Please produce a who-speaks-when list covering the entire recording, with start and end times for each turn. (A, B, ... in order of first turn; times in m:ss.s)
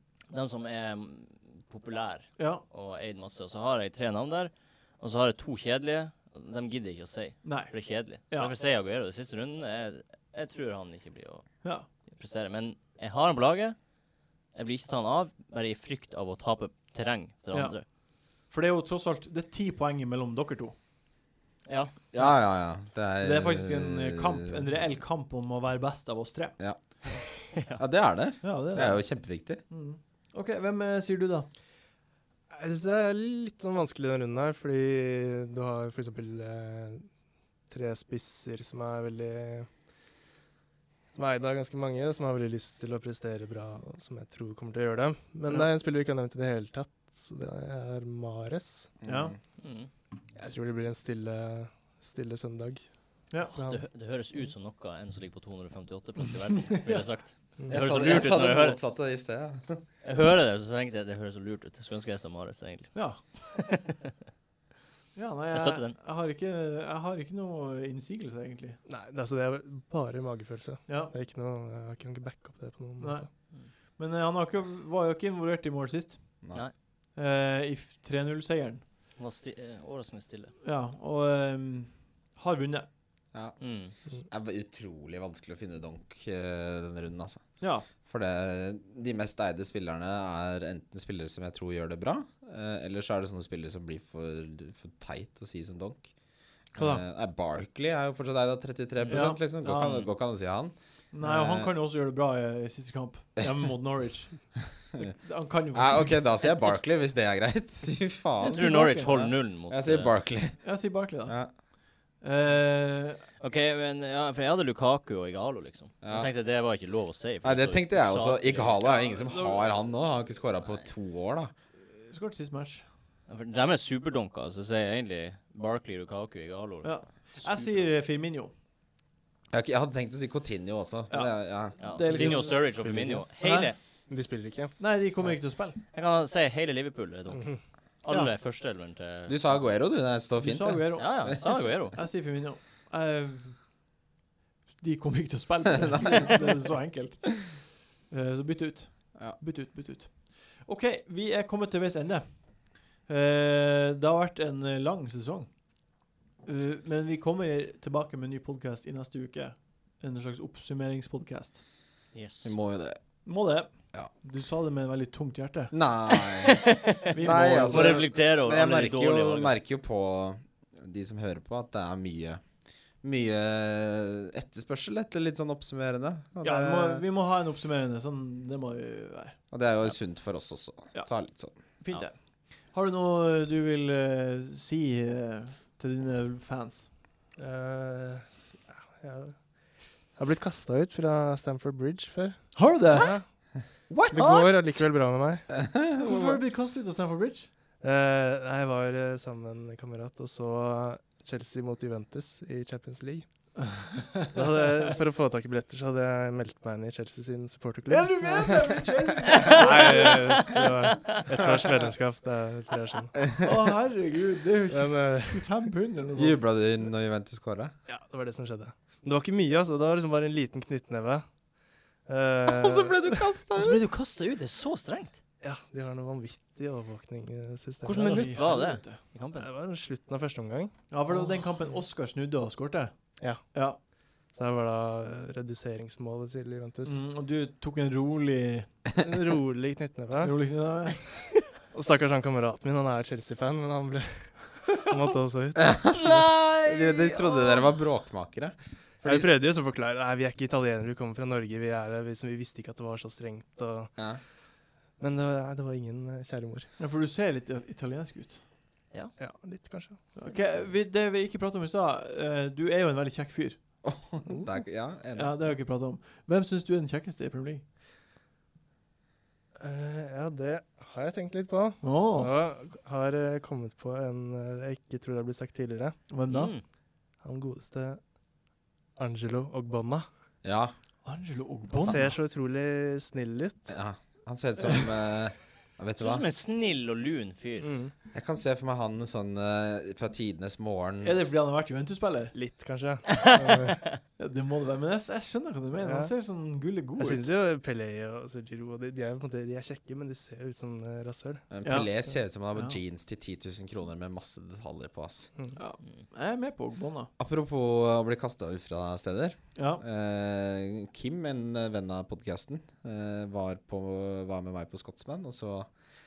0:00.3-0:13.8 A
0:02.4-0:02.6 B
0:07.4-0:07.7 B
0:14.5-0:17.9 A
0:17.5-0:20.8 B
0:21.6-0:21.9 A
0:22.1-0:24.6 C
0:23.2-0:26.6 B
0:27.3-0:29.6 C
0:27.5-0:27.8 A
0:28.4-0:31.5 B
0:32.5-0:37.1 D
0:37.7-0:39.7 D
0:41.1-0:48.9 D
0:49.0-0:49.4 C
0:49.0-0:49.3 B
0:49.6-0:49.9 A
0:50.3-0:53.8 D
0:53.5-0:58.8 A
0:57.7-0:59.8 C
1:00.0-1:04.1 A
1:02.9-1:03.2 B
1:05.1-1:08.8 B
1:05.5-1:06.0 A
1:08.8-1:13.3 D
1:10.9-1:11.1 B
1:13.0-1:16.4 B
1:17.2-1:18.8 B
1:19.2-1:20.5 A
1:20.6-1:22.9 B
1:23.3-1:36.1 C
1:23.6-1:23.9 A
1:27.6-1:27.8 B
1:36.7-1:41.7 C
1:36.7-1:37.0 B
1:39.0-1:40.1 A
1:39.1-1:40.0 B
1:41.1-1:46.2 B
1:45.7-1:50.6 C
1:48.4-1:50.1 A
1:48.5-1:49.2 B
1:50.6-1:51.4 B
1:51.2-1:51.5 C
1:52.1-1:53.2 B
1:53.4-1:58.8 A
1:56.0-1:56.3 C
1:57.4-2:01.5 C
1:58.8-1:59.7 B
2:01.9-2:02.8 B
2:03.3-2:07.9 A
2:06.8-2:08.5 B
2:09.5-2:12.3 C
2:11.1-2:12.8 B
2:11.8-2:13.8 A
2:12.1-2:13.2 D
2:13.4-2:13.7 B
2:14.1-2:14.8 D
2:14.8-2:15.8 B
2:15.8-2:19.7 A
2:17.3-2:17.6 D
2:19.3-2:21.3 C
2:20.4-2:23.6 B
2:20.9-2:22.0 A
2:24.7-2:35.6 B
2:36.4-2:41.6 B
2:42.1-2:42.5 A
2:42.4-2:43.0 C
2:43.2-2:45.7 B
2:45.7-2:52.4 C
2:46.1-2:49.5 A
2:47.1-2:48.1 B
2:53.0-2:57.0 C
2:56.4-2:59.4 B
2:59.5-3:01.5 C
3:01.8-3:06.9 B
3:07.4-3:09.5 D
3:10.1-3:13.2 D
3:12.5-3:13.1 B
3:13.9-3:14.7 C
3:14.1-3:15.5 D
3:15.5-3:16.4 C
3:16.0-3:17.5 B
3:17.8-3:23.2 D
3:23.7-3:24.0 B
3:24.3-3:28.4 D
3:27.9-3:30.4 B
3:29.4-3:31.0 A
3:29.4-3:33.2 D
3:33.2-3:33.6 C
3:33.4-3:36.5 B
3:34.7-3:35.5 D
3:36.2-3:37.7 C
3:37.9-3:41.2 D
3:42.0-3:43.1 D
3:42.5-3:43.8 C
3:43.6-3:45.2 A
3:45.4-3:48.3 D
3:47.8-3:49.5 A
3:48.0-3:49.0 B
3:49.3-3:51.3 D
3:50.9-3:52.9 B
3:53.2-3:53.5 D
3:53.5-3:53.8 B
3:54.3-3:57.0 D
3:56.8-3:58.7 B
3:59.0-4:00.4 D
4:00.2-4:01.0 B
4:01.7-4:06.2 D
4:05.7-4:06.0 C
4:05.9-4:07.7 A
4:06.6-4:09.3 C
4:09.0-4:14.0 D
4:15.0-4:16.7 D
4:16.8-4:18.4 B
4:19.2-4:20.1 D
4:20.1-4:23.6 B
4:20.2-4:20.6 A
4:23.8-4:25.3 C
4:25.1-4:27.6 B
4:29.6-4:36.0 D
4:31.8-4:32.3 B
4:36.1-4:36.5 B
4:36.3-4:36.6 A
4:37.2-4:38.0 D
4:39.0-4:40.0 D
4:40.4-4:40.7 C
4:41.0-4:42.1 B
4:41.7-4:43.7 D
4:43.7-4:46.2 C
4:46.0-4:47.7 A
4:47.6-4:47.9 D
4:48.1-4:51.2 C
4:51.0-4:52.3 B
4:52.3-4:54.0 D
4:53.1-4:54.0 A
4:54.2-4:57.3 B
4:55.8-4:56.1 D
4:57.0-5:01.4 D
5:01.5-5:05.3 C
5:01.6-5:01.9 B
5:02.5-5:02.8 B
5:05.6-5:07.1 B
5:07.2-5:15.7 C
5:09.6-5:09.8 B